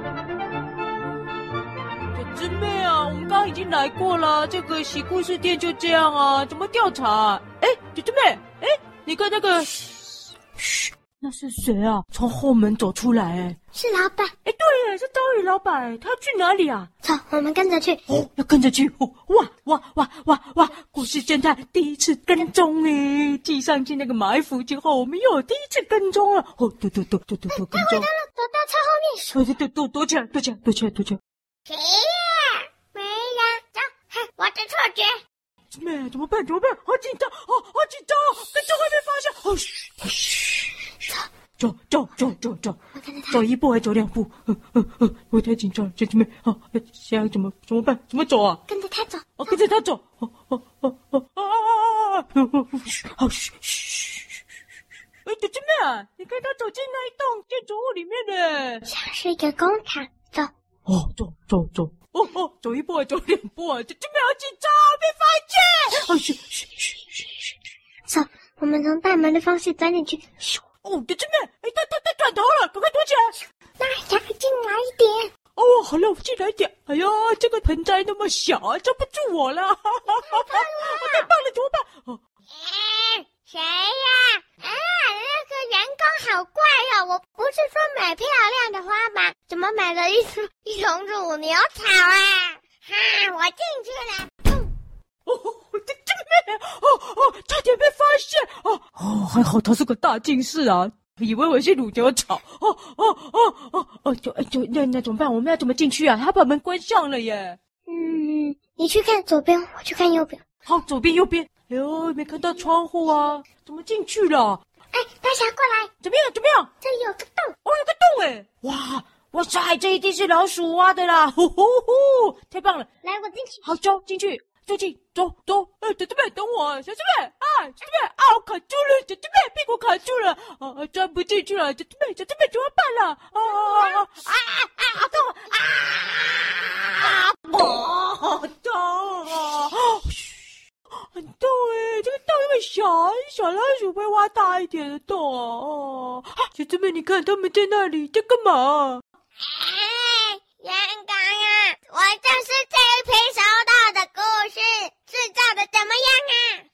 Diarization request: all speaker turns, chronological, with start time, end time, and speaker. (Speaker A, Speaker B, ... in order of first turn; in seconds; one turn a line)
Speaker A: 2.1-9.8
Speaker A: 10.6-13.6
Speaker B: 13.7-14.3
Speaker A: 14.4-16.9
Speaker B: 17.0-18.0
Speaker A: 18.1-28.1
Speaker B: 27.5-29.4
Speaker A: 29.3-31.2
Speaker B: 31.7-35.2
Speaker A: 35.7-40.5
Speaker A: 41.6-42.8
Speaker B: 42.9-43.4
Speaker A: 43.3-48.6
Speaker B: 48.7-49.6
Speaker A: 49.4-54.3
Speaker A: 55.2-58.9
Speaker B: 58.9-60.5
Speaker A: 60.9-67.2
Speaker B: 68.1-70.6
Speaker A: 70.8-73.4
Speaker B: 73.8-75.3
Speaker A: 75.5-82.2
Speaker B: 80.2-81.3
Speaker B: 82.5-94.7
Speaker A: 95.2-107.6
Speaker B: 107.9-110.4
Speaker A: 110.6-114.6
Speaker B: 114.9-115.9
Speaker A: 116.0-116.7
Speaker B: 116.8-117.5
Speaker A: 117.6-122.9
Speaker B: 123.0-123.7
Speaker A: 123.6-149.0
Speaker B: 149.4-156.7